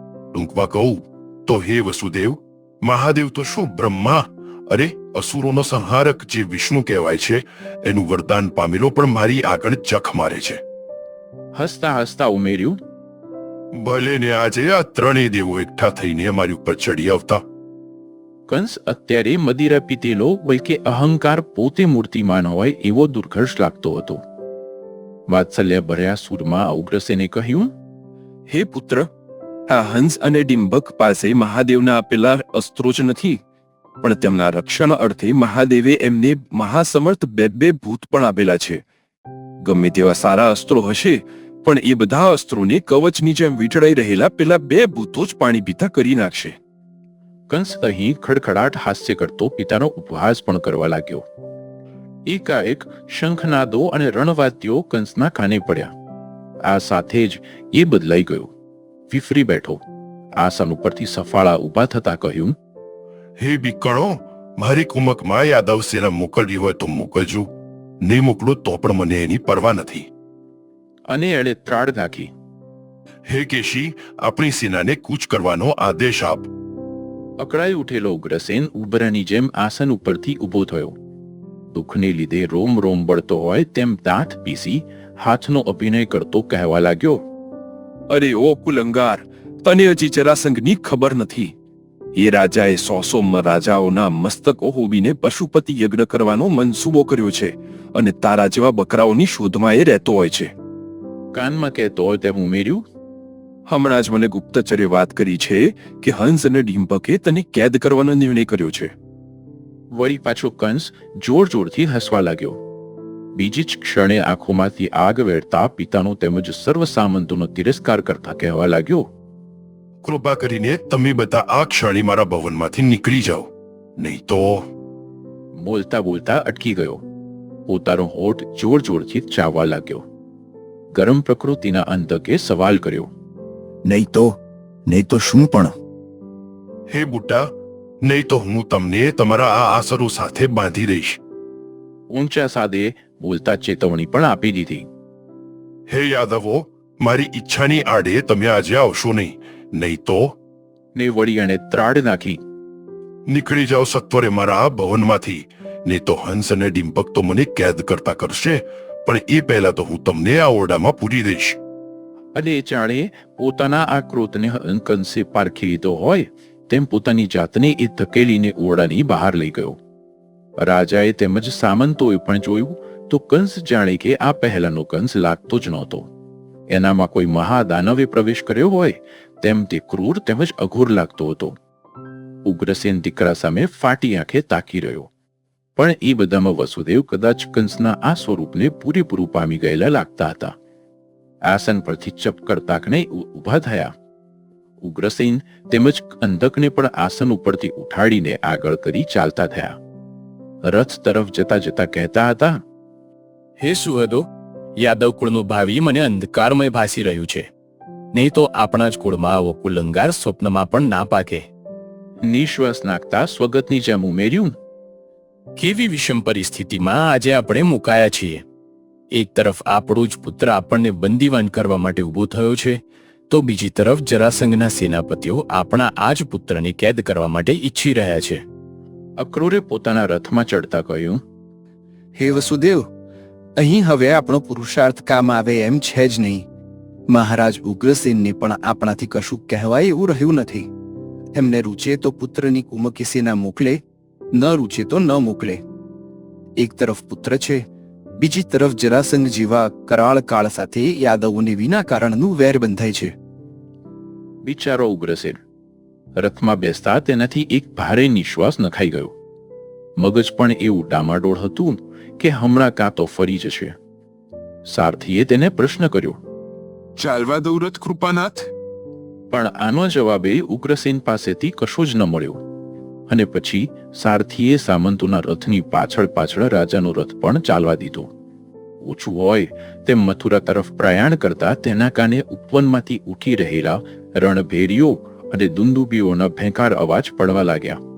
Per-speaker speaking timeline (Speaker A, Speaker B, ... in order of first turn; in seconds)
Speaker A: 0.3-10.6, 13.8-17.4, 63.4-67.5, 68.0-70.1, 73.3-76.5, 120.0-124.7, 136.9-137.5, 138.0-141.2, 145.9-150.4, 153.3-161.6
Speaker B: 11.6-12.8, 18.5-24.2, 25.3-27.7, 47.5-51.2, 52.3-55.9, 56.6-58.5, 59.1-59.8, 60.4-62.5, 71.1-72.3, 77.4-80.9, 81.7-87.2, 101.3-102.8, 109.9-112.6, 113.3-119.0, 125.5-127.0, 127.7-130.0, 130.9-133.1, 142.1-144.9, 150.9-152.4, 162.3-169.8, 170.6-176.1, 176.7-181.5, 182.4-185.1, 185.8-190.5, 191.5-193.9, 194.8-199.8, 200.6-202.6, 212.2-214.5, 229.2-231.2, 254.4-255.4, 256.2-259.1, 260.0-263.7, 264.7-266.2, 269.3-272.4, 273.1-278.1, 278.8-287.8
Speaker C: 28.5-29.1, 29.7-33.4, 34.0-38.8, 39.6-46.5, 88.1-91.5, 92.2-100.5, 103.7-108.9, 267.0-268.5
Speaker D: 133.9-134.2, 134.9-135.6, 203.6-204.2, 204.8-207.5, 208.1-211.5, 215.6-218.4, 219.1-228.4
Speaker E: 232.2-232.8, 233.6-236.4, 237.1-240.7, 241.3-245.6, 246.6-247.6, 248.2-253.1